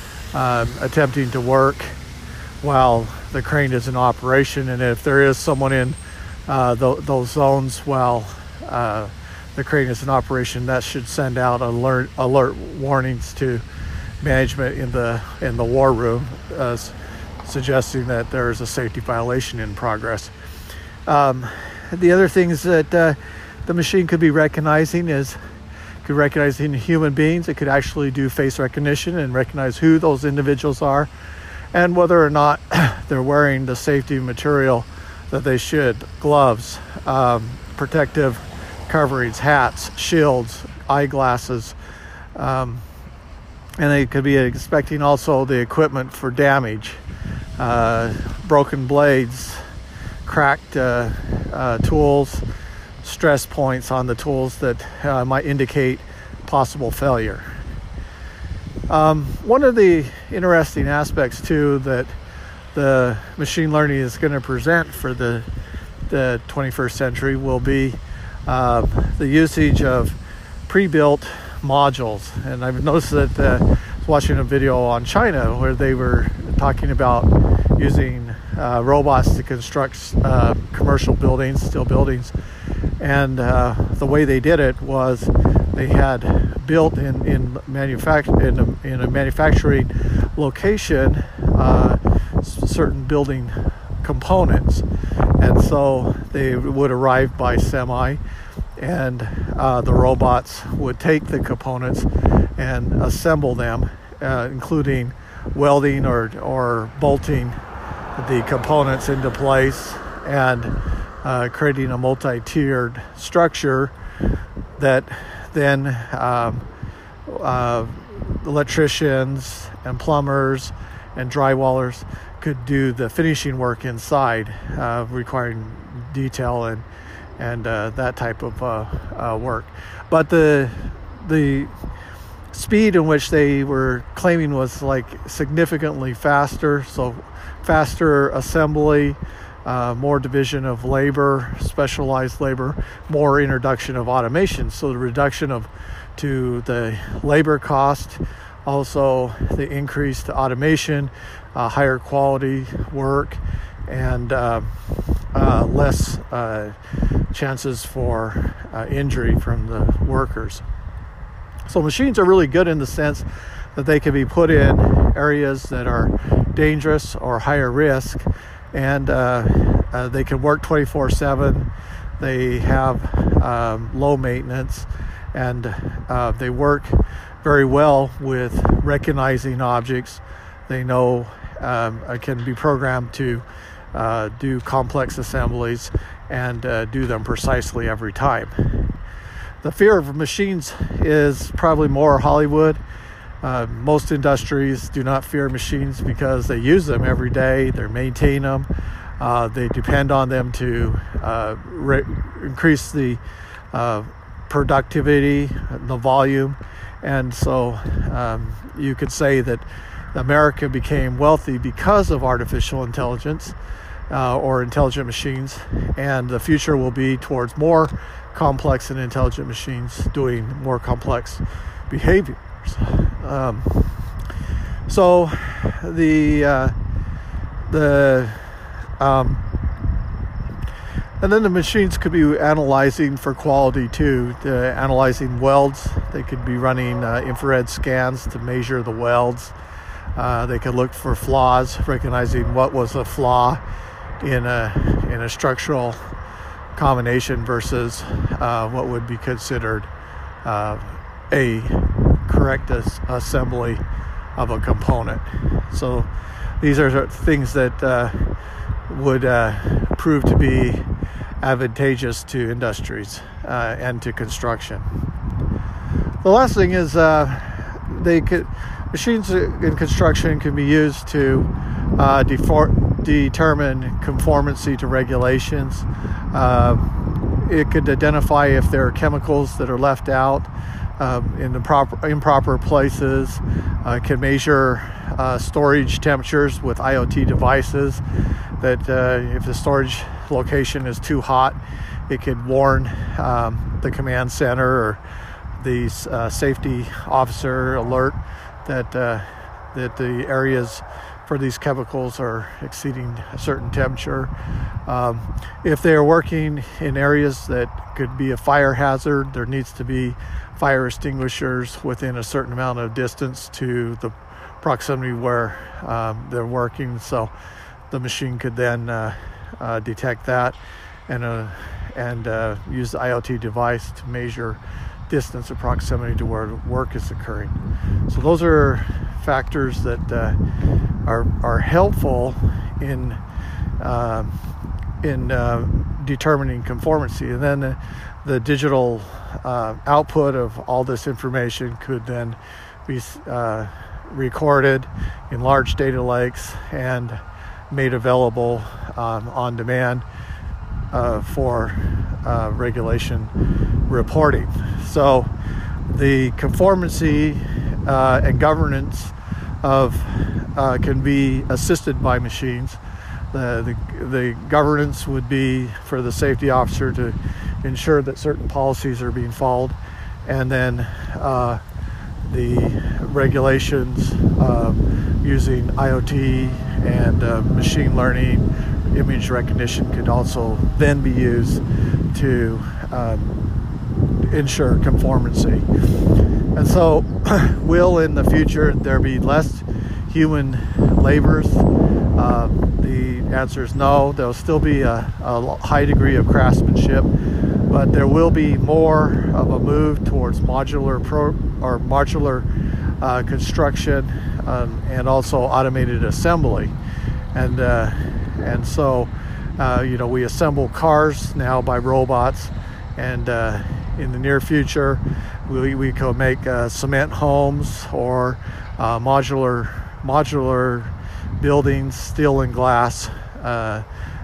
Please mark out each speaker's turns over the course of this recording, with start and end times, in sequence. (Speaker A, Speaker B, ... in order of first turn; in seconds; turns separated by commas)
Speaker A: 0.3-2.0, Speaker A: 2.6-13.7, Speaker A: 14.2-20.3, Speaker A: 21.1-25.4, Speaker A: 26.0-31.1, Speaker A: 31.7-41.8, Speaker A: 42.4-42.9, Speaker A: 43.8-47.0, Speaker A: 47.6-49.6, Speaker A: 50.2-52.5, Speaker A: 53.0-57.5, Speaker A: 58.9-62.2, Speaker A: 62.7-65.5, Speaker A: 66.1-82.3, Speaker A: 83.0-94.8, Speaker A: 95.4-98.2, Speaker A: 98.8-107.6, Speaker A: 108.2-113.9, Speaker A: 114.8-116.7, Speaker A: 117.3-126.9, Speaker A: 127.4-131.7, Speaker A: 132.5-154.8, Speaker A: 155.3-156.8, Speaker A: 157.3-160.6, Speaker A: 161.7-188.9, Speaker A: 189.6-192.8, Speaker A: 193.4-203.2, Speaker A: 203.7-213.6, Speaker A: 214.1-224.0, Speaker A: 224.9-226.8, Speaker A: 227.7-229.4, Speaker A: 231.2-239.6, Speaker A: 240.2-243.6, Speaker A: 244.2-246.0, Speaker A: 246.8-249.9, Speaker A: 250.4-253.8, Speaker A: 254.4-256.1, Speaker A: 256.6-258.3, Speaker A: 258.9-260.9, Speaker A: 261.4-264.9, Speaker A: 266.2-288.0, Speaker A: 288.6-295.0, Speaker A: 295.6-304.3, Speaker A: 304.9-317.3, Speaker A: 317.9-330.4, Speaker A: 331.1-333.2, Speaker A: 333.8-334.4, Speaker A: 335.0-350.1, Speaker A: 350.9-353.3, Speaker A: 353.9-355.3, Speaker A: 355.9-362.8, Speaker A: 363.3-371.6, Speaker A: 372.3-383.4, Speaker A: 384.2-385.7, Speaker A: 386.6-397.1, Speaker A: 397.7-402.5, Speaker A: 403.0-406.8, Speaker A: 407.4-423.9